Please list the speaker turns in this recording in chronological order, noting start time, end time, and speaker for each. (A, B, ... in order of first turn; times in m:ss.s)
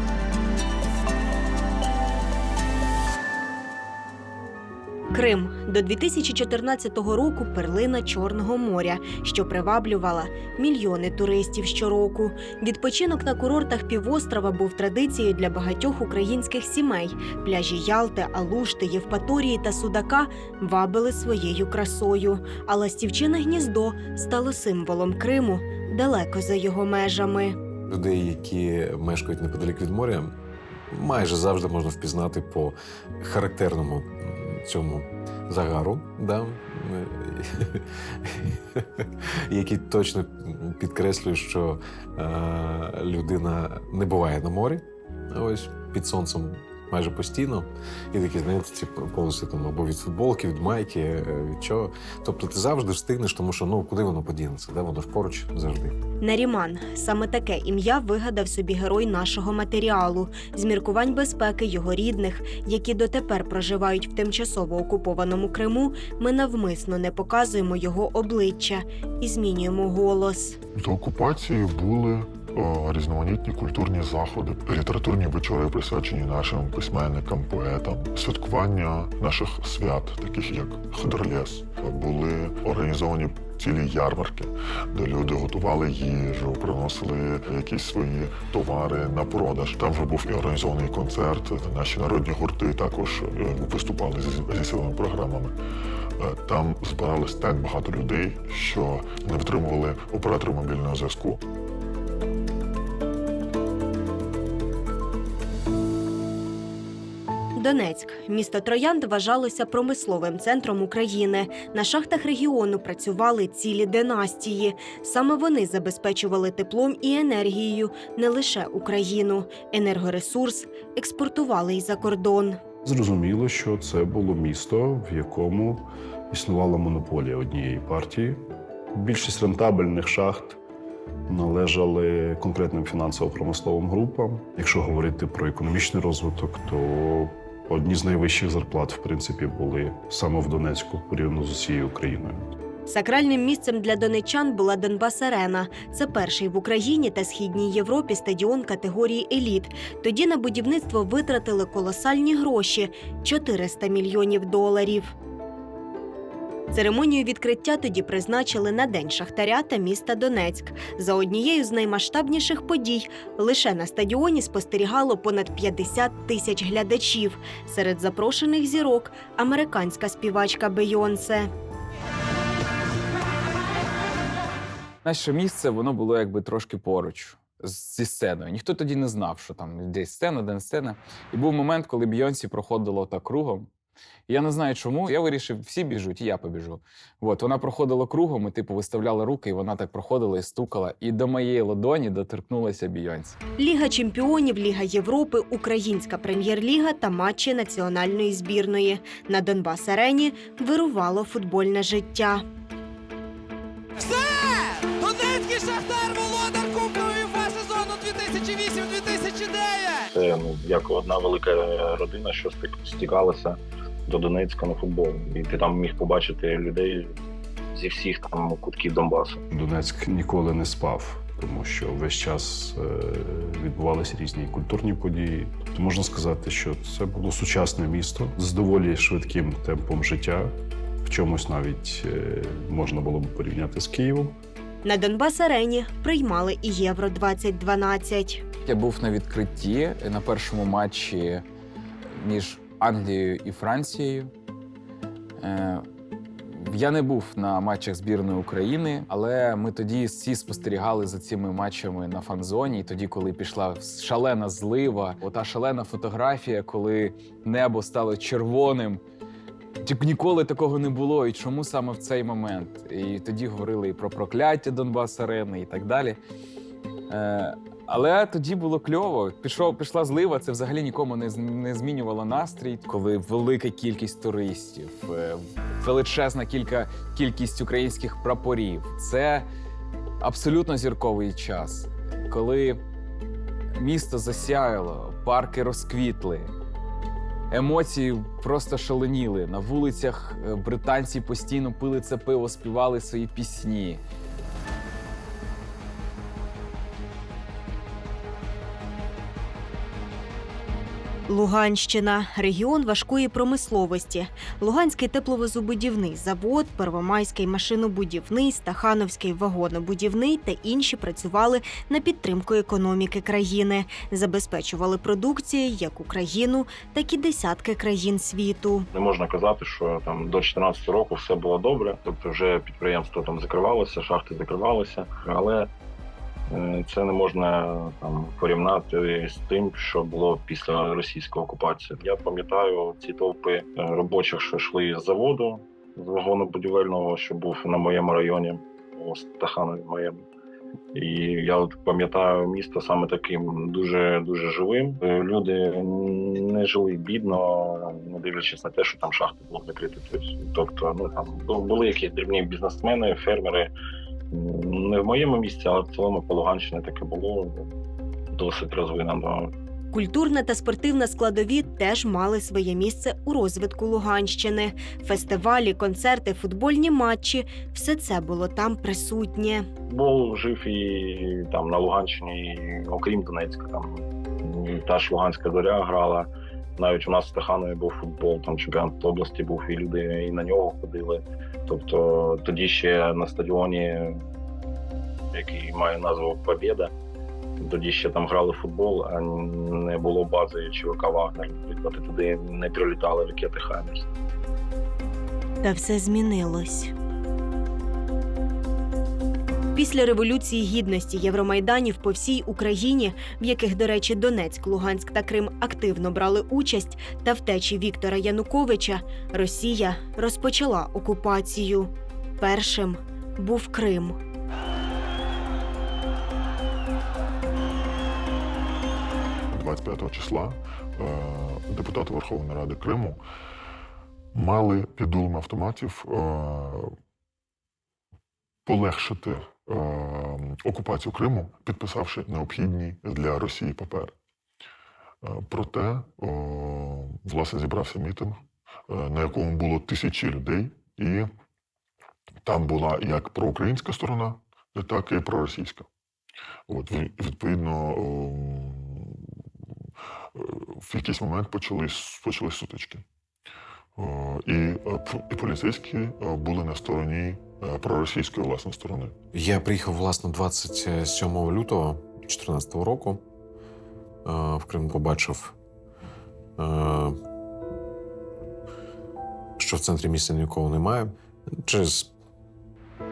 0:05.1-0:27.6 A
0:27.9-0:30.4 B
0:30.9-0:56.0 B
0:56.2-1:10.6 A
1:10.7-1:35.5 C
1:36.2-1:41.4 C
1:47.6-2:02.6 A
2:02.8-2:08.4 D
2:08.9-2:10.6 D
2:11.3-2:22.4 D
2:22.9-2:35.1 A
2:36.7-2:51.5 A
2:55.0-3:03.7 E
3:04.3-3:13.4 E
3:13.6-3:22.4 A
3:24.0-3:30.0 F
3:30.1-3:37.1 G
3:37.7-3:39.4 G
3:39.5-3:54.4 D
3:54.8-3:58.4 A
3:58.6-4:01.4 E
4:02.1-4:04.3 E
4:05.4-4:05.8 E
4:06.5-4:19.0 E
4:19.8-4:26.2 E
4:27.1-4:39.4 E
4:40.2-4:42.8 E
4:43.7-4:46.5 E
4:47.5-4:54.0 E
5:01.3-5:18.9 A
5:18.9-5:25.7 G
5:26.5-5:40.2 G
5:40.9-5:53.7 G
5:54.3-5:57.7 G
5:58.4-5:59.5 G
5:59.9-6:09.7 A
6:09.9-6:24.2 G
6:25.3-6:26.9 G
6:27.6-6:34.1 G
6:35.6-6:36.9 A
6:39.7-6:54.2 A
6:59.5-7:03.2 C
7:04.3-7:06.9 C
7:08.6-7:14.1 C
7:15.2-7:21.3 C
7:22.4-7:25.9 C
7:26.7-7:29.2 C
7:30.4-7:33.0 C
7:34.0-7:39.1 C
7:39.3-7:43.2 B
7:44.2-7:45.6 B
7:46.6-7:47.2 B
7:49.6-7:52.1 B